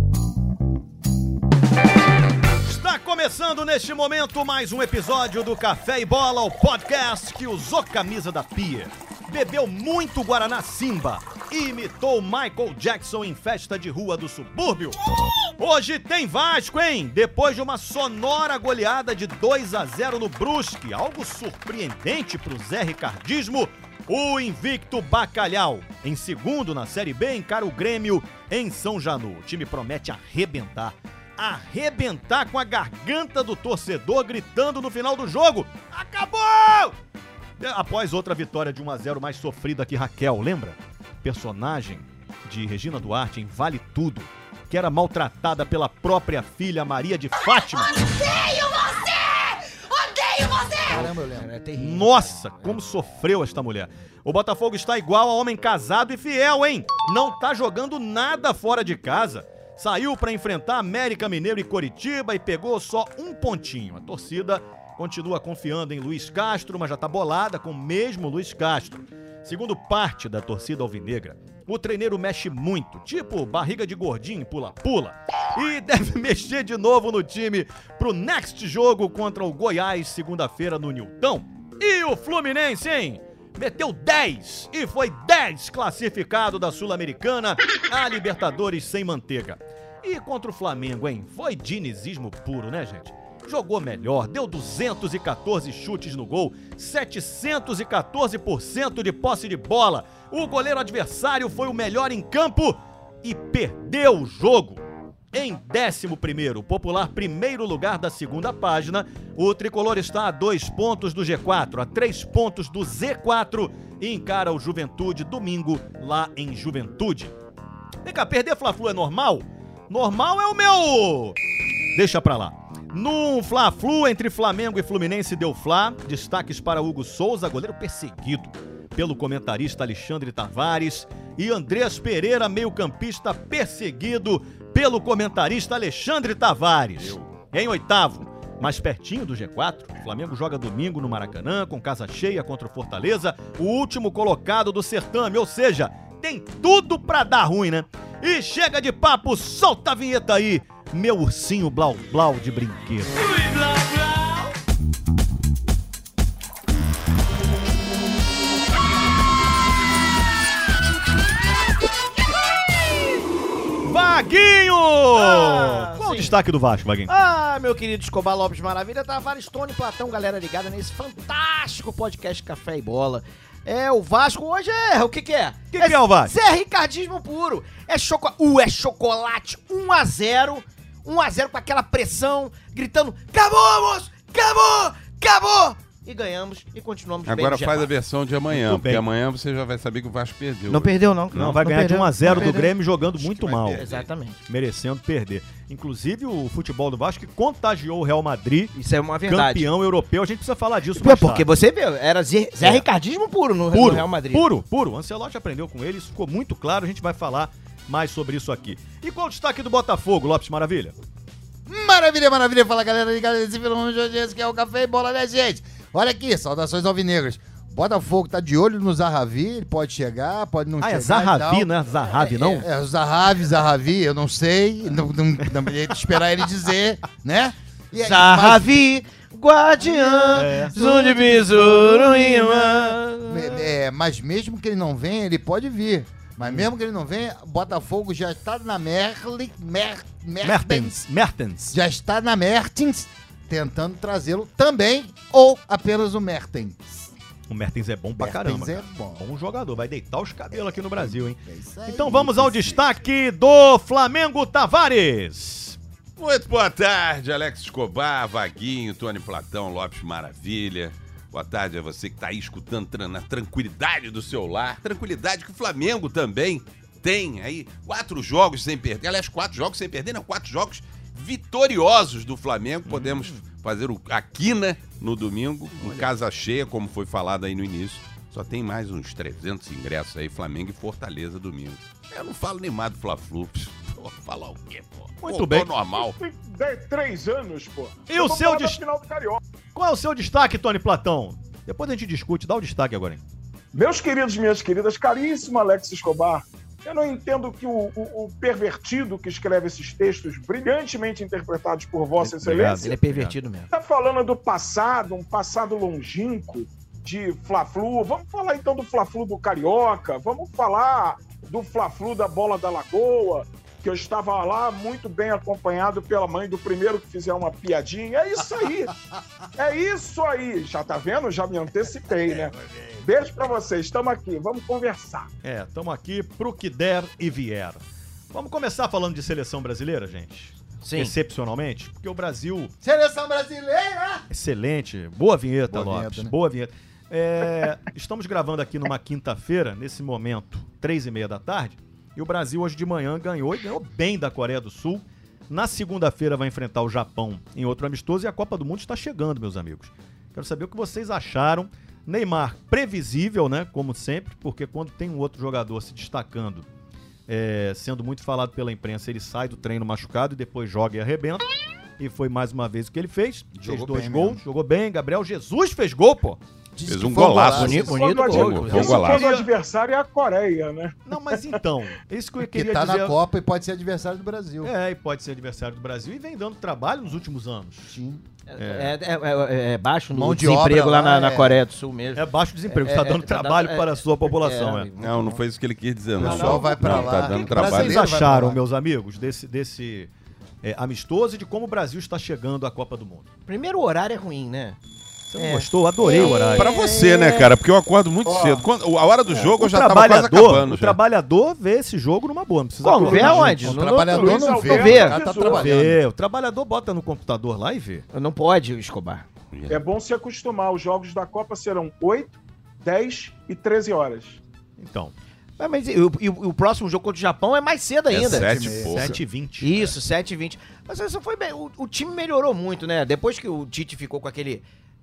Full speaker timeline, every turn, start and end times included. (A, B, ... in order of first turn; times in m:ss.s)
0:02.6-0:15.0 A
0:15.6-0:37.0 A
0:37.6-0:47.9 A
0:47.9-0:52.8 B
0:50.8-0:51.5 C
0:51.8-1:57.3 A
1:58.0-2:01.4 A
2:01.9-2:33.8 A
2:17.0-2:17.3 D
2:43.8-2:47.1 A
2:45.2-2:46.4 B
2:47.1-3:07.9 B
2:55.7-2:56.3 A
3:07.2-3:11.6 D
3:08.5-3:09.0 A
3:10.7-3:14.4 B
3:11.3-3:13.8 A
3:12.2-3:12.5 D
3:13.4-3:14.1 D
3:14.5-3:18.7 A
3:18.7-3:19.7 B
3:19.2-3:21.5 A
3:21.0-3:24.5 B
3:23.7-3:31.0 A
3:31.6-3:41.7 C
3:40.8-3:42.6 A
3:42.1-3:42.6 B
3:42.6-3:49.0 C
3:48.0-3:53.7 B
3:49.8-4:01.1 C
3:50.3-3:51.2 A
4:00.4-4:01.8 A
4:01.7-4:07.1 C
4:07.5-4:15.8 A
4:08.2-4:09.2 C
4:10.5-4:12.8 C
4:16.2-4:46.2 D
4:32.8-4:33.4 A
4:35.8-4:36.1 A
4:45.2-4:45.7 A
4:45.9-4:49.4 E
4:48.1-4:48.8 A
4:49.7-4:53.2 A
4:53.7-5:03.0 E
5:02.2-5:03.3 A
5:02.8-5:03.7 B
5:03.7-5:18.9 E
5:19.6-5:25.3 E
5:22.3-5:23.0 C
5:25.4-5:32.7 A
5:30.8-5:31.1 B
5:32.8-5:34.2 C
5:34.3-5:56.6 A
5:35.7-5:36.3 C
5:57.3-6:01.4 A
6:02.0-6:06.4 A
6:03.5-6:04.4 C
6:06.7-6:08.0 C
6:06.8-6:09.3 D
6:07.4-6:09.2 B
6:07.9-6:11.6 E
6:08.9-6:09.5 A
6:11.0-6:13.2 A
6:12.5-6:14.7 C
6:14.6-6:17.9 A
6:17.9-6:18.2 C
6:18.5-6:25.4 B
6:18.6-6:19.0 A
6:20.1-6:21.6 C
6:22.1-6:24.9 A
6:25.0-6:28.0 D
6:26.2-6:28.6 C
6:26.2-6:30.1 A
6:30.6-6:33.3 A
6:33.5-6:34.8 B
6:35.3-6:36.7 A
6:35.4-6:37.5 B
6:36.2-6:41.0 D
6:38.2-6:38.7 E
6:39.3-6:43.8 A
6:42.8-6:45.2 B
6:43.0-6:45.7 E
6:43.3-6:46.0 C
6:45.5-6:48.0 A
6:48.1-6:49.2 B
6:49.5-6:49.8 D
6:49.7-6:54.4 E
6:54.8-6:55.1 A
6:55.6-6:58.8 B
6:58.1-6:59.2 D
6:58.2-6:59.2 C
6:58.9-6:59.9 A
6:59.6-7:04.6 B